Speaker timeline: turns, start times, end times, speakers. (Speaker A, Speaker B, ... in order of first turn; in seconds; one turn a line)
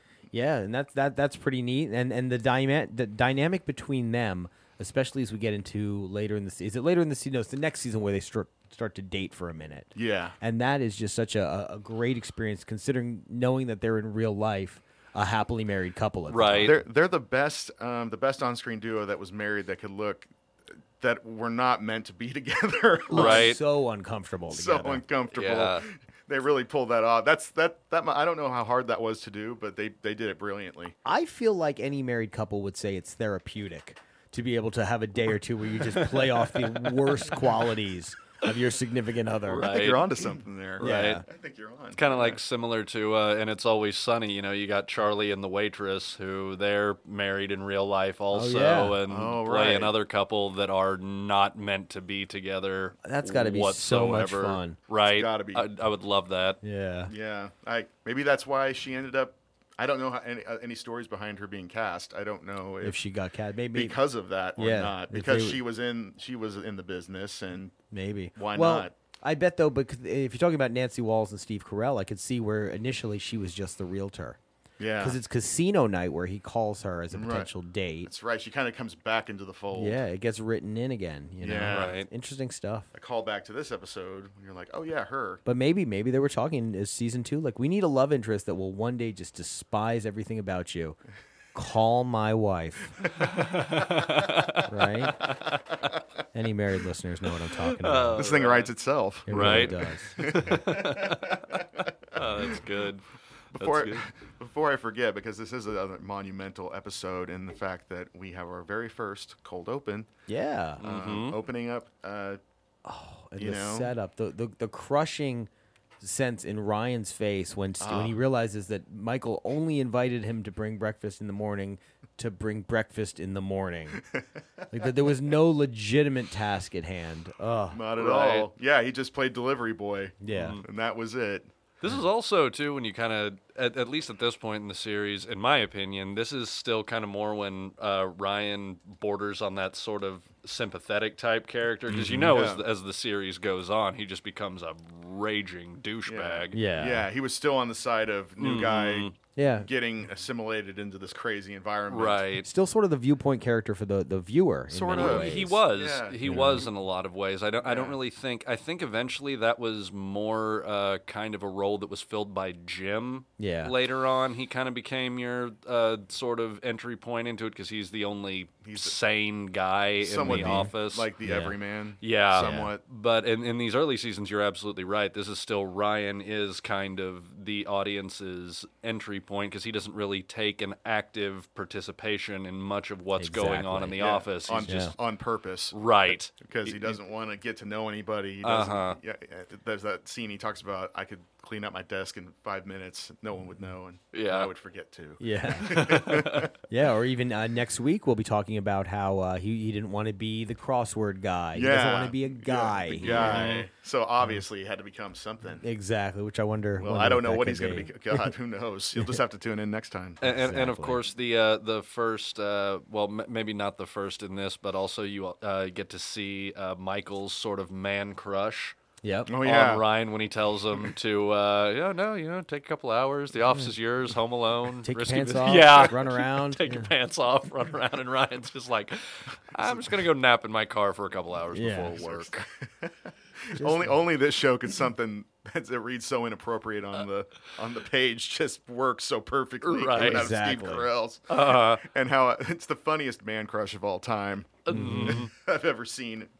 Speaker A: 0.3-16.8
Speaker B: 10.0-10.4
Speaker C: 16.3-16.7
Speaker B: 16.6-20.3
Speaker B: 21.0-23.5
Speaker A: 23.1-25.0
Speaker C: 23.1-23.6
Speaker B: 24.5-31.0
Speaker C: 25.3-25.9
Speaker A: 31.1-39.7
Speaker C: 39.5-40.1
Speaker B: 39.6-42.4
Speaker C: 40.8-41.2
Speaker A: 40.8-41.2
Speaker C: 42.0-56.6
Speaker A: 48.3-49.0
Speaker B: 49.1-49.9
Speaker A: 53.0-54.8
Speaker B: 55.0-55.6
Speaker A: 56.6-57.1
Speaker B: 57.1-63.0
Speaker A: 62.8-64.0
Speaker B: 63.7-67.8
Speaker A: 64.6-65.6
Speaker A: 67.9-74.4
Speaker B: 68.3-68.9
Speaker B: 74.8-75.2
Speaker A: 75.0-78.1
Speaker B: 77.1-77.5
Speaker B: 78.0-80.0
Speaker A: 79.7-82.9
Speaker B: 81.4-82.0
Speaker C: 81.7-82.1
Speaker B: 82.9-85.4
Speaker A: 85.5-91.0
Speaker A: 91.5-93.0
Speaker C: 93.2-95.6
Speaker A: 94.7-95.3
Speaker A: 96.3-98.3
Speaker C: 97.7-98.7
Speaker B: 98.2-102.6
Speaker A: 99.3-100.6
Speaker C: 99.3-104.1
Speaker B: 103.5-110.1
Speaker A: 110.3-110.8
Speaker C: 110.8-111.4
Speaker B: 110.8-112.4
Speaker A: 112.8-115.5
Speaker B: 113.4-113.9
Speaker A: 116.0-124.0
Speaker B: 117.8-118.2
Speaker B: 124.0-124.7
Speaker A: 124.7-127.8
Speaker B: 127.7-131.5
Speaker C: 128.0-128.5
Speaker A: 130.2-130.6
Speaker C: 130.3-130.6
Speaker C: 131.8-146.6
Speaker A: 141.9-142.4
Speaker B: 142.2-142.7
Speaker B: 146.1-152.3
Speaker A: 146.5-147.1
Speaker C: 148.4-149.1
Speaker A: 149.4-149.7
Speaker C: 151.9-152.5
Speaker A: 152.4-155.6
Speaker B: 154.7-156.7
Speaker C: 155.0-171.1
Speaker A: 156.2-156.7
Speaker B: 157.6-158.0
Speaker A: 163.4-163.8
Speaker B: 168.6-168.9
Speaker B: 170.0-172.8
Speaker A: 170.3-170.7
Speaker A: 171.2-171.6
Speaker C: 172.0-184.8
Speaker A: 172.4-172.7
Speaker A: 183.2-184.0
Speaker B: 184.0-185.8
Speaker A: 184.6-184.9
Speaker C: 185.7-187.0
Speaker B: 186.4-196.5
Speaker C: 188.4-189.0
Speaker C: 194.1-194.5
Speaker A: 195.2-195.8
Speaker C: 195.6-196.5
Speaker A: 196.7-203.6
Speaker B: 201.5-205.7
Speaker C: 203.0-203.7
Speaker A: 205.6-208.3
Speaker B: 206.8-210.2
Speaker A: 208.9-209.2
Speaker C: 210.2-218.8
Speaker A: 210.2-211.0
Speaker A: 219.0-219.3
Speaker B: 219.3-219.9
Speaker C: 219.4-232.5
Speaker A: 224.8-226.9
Speaker B: 229.6-229.9
Speaker A: 231.5-232.0
Speaker B: 232.0-246.3
Speaker A: 233.6-234.0
Speaker C: 239.6-240.3
Speaker A: 240.0-240.9
Speaker C: 241.3-241.8
Speaker C: 244.7-245.3
Speaker A: 244.7-245.2